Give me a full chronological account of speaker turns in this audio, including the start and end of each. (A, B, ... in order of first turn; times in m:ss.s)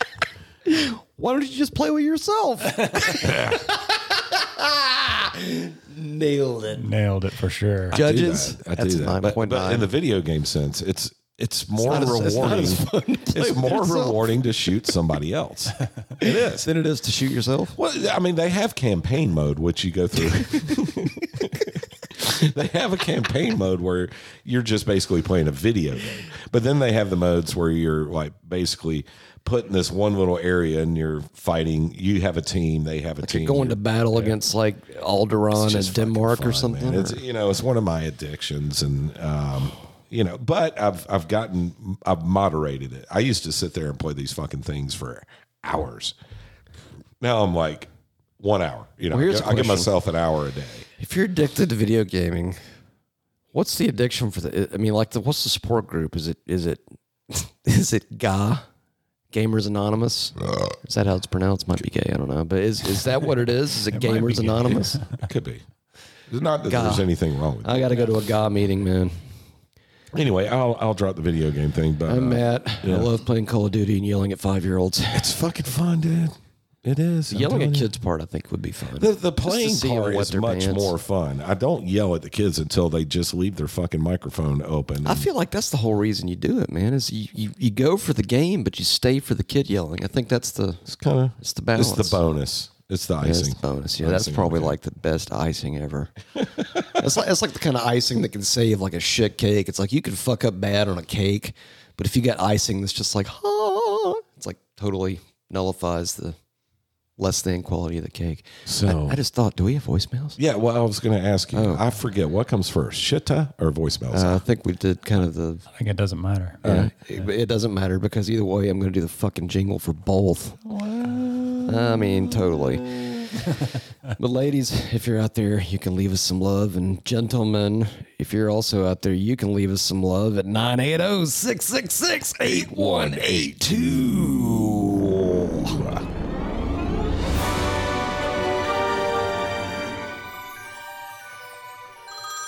0:00.7-0:06.9 A
0:03.1-0:03.7 B
0:06.8-0:08.0 C
0:07.9-0:09.9 A
0:07.9-0:16.7 B
0:11.8-0:14.7 A
0:16.2-0:17.8 A
0:17.8-0:33.8 B
0:33.2-0:37.2 A
0:35.5-0:46.2 B
0:47.2-0:50.9 B
0:49.1-0:50.0 A
0:51.0-0:52.6 A
0:53.5-0:58.7 A
0:59.3-1:05.0 A
1:03.9-1:05.2 C
1:05.2-1:05.6 B
1:06.3-1:08.1 B
1:06.7-1:07.1 A
1:07.6-1:09.2 A
1:10.1-1:13.1 B
1:12.1-1:15.4 A
1:15.1-1:17.9 B
1:17.3-1:21.0 A
1:19.0-1:25.3 B
1:25.0-1:30.9 A
1:30.9-1:34.8 B
1:31.4-1:32.2 A
1:33.2-1:36.1 A
1:36.6-1:46.4 A
1:47.2-1:50.4 A
1:48.7-1:49.2 B
1:50.4-1:54.4 B
1:51.5-1:51.8 A
1:54.1-1:55.7 A
1:55.8-1:56.6 C
1:56.6-1:56.9 B
1:56.6-2:00.6 A
2:00.6-2:02.7 B
2:01.7-2:03.5 A
2:04.2-2:15.2 A
2:12.5-2:14.4 B
2:15.6-2:16.0 B